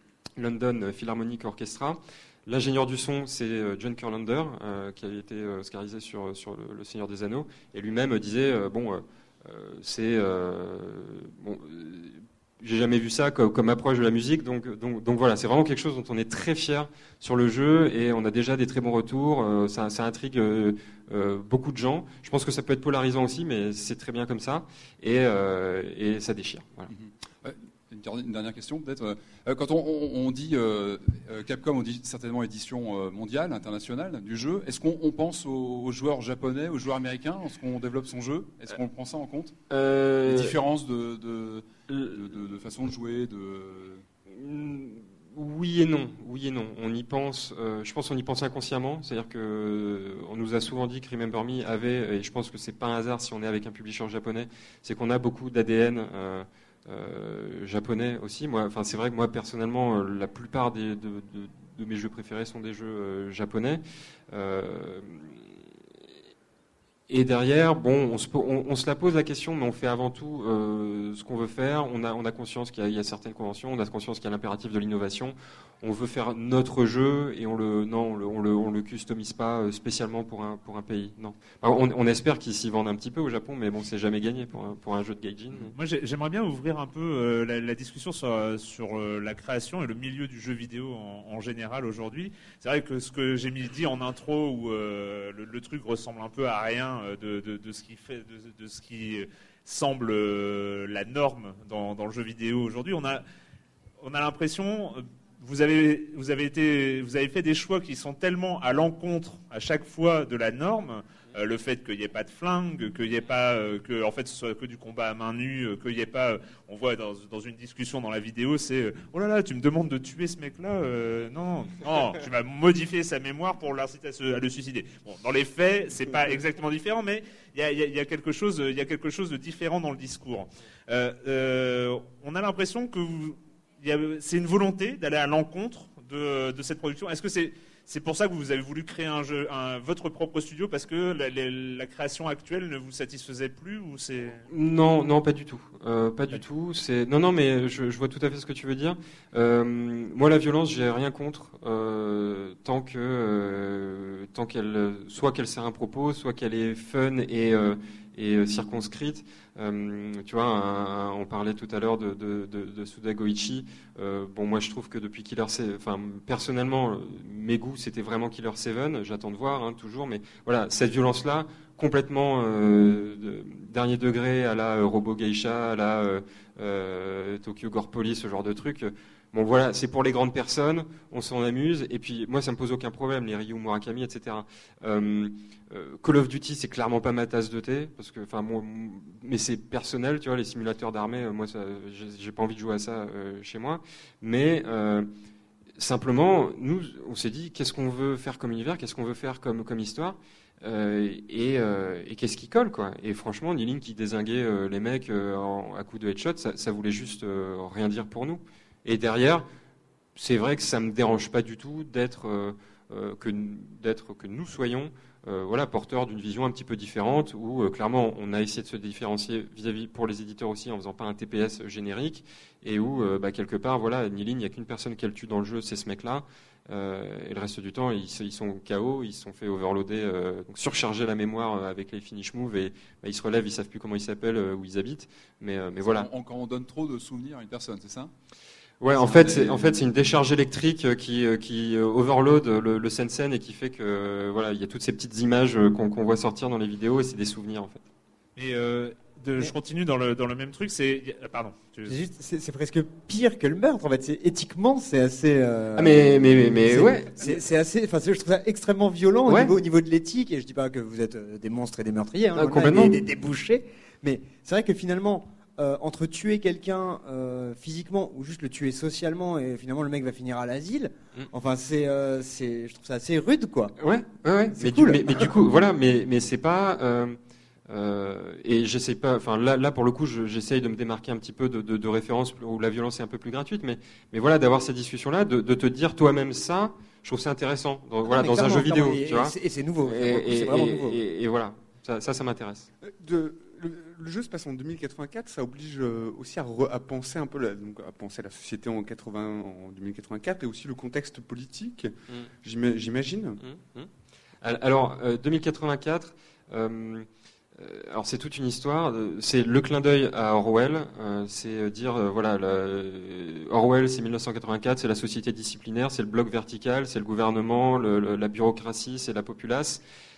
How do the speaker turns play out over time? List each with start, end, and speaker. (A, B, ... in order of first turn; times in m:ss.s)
0:00.4-0:26.9 A
0:26.9-0:39.6 B
0:39.7-0:40.6 A
0:40.2-0:44.0 B
0:41.9-0:42.3 A
0:44.3-1:05.4 A
1:07.1-1:25.8 A
1:25.7-1:43.2 C
1:44.0-2:24.4 C
2:24.5-3:15.1 A
3:15.8-3:29.4 A
3:30.2-3:56.1 A
3:55.8-3:58.1 B
3:58.8-4:07.8 A
3:59.0-3:59.8 B
4:08.4-4:12.0 C
4:11.9-4:33.7 D
4:15.7-4:17.4 A
4:19.2-4:19.5 A
4:22.3-4:23.0 A
4:33.8-4:37.2 A
4:34.6-4:35.3 D
4:37.7-4:52.7 A
4:48.0-4:51.0 D
4:52.8-5:01.9 E
5:02.4-5:03.4 E
5:03.4-5:03.9 A
5:04.4-5:19.8 A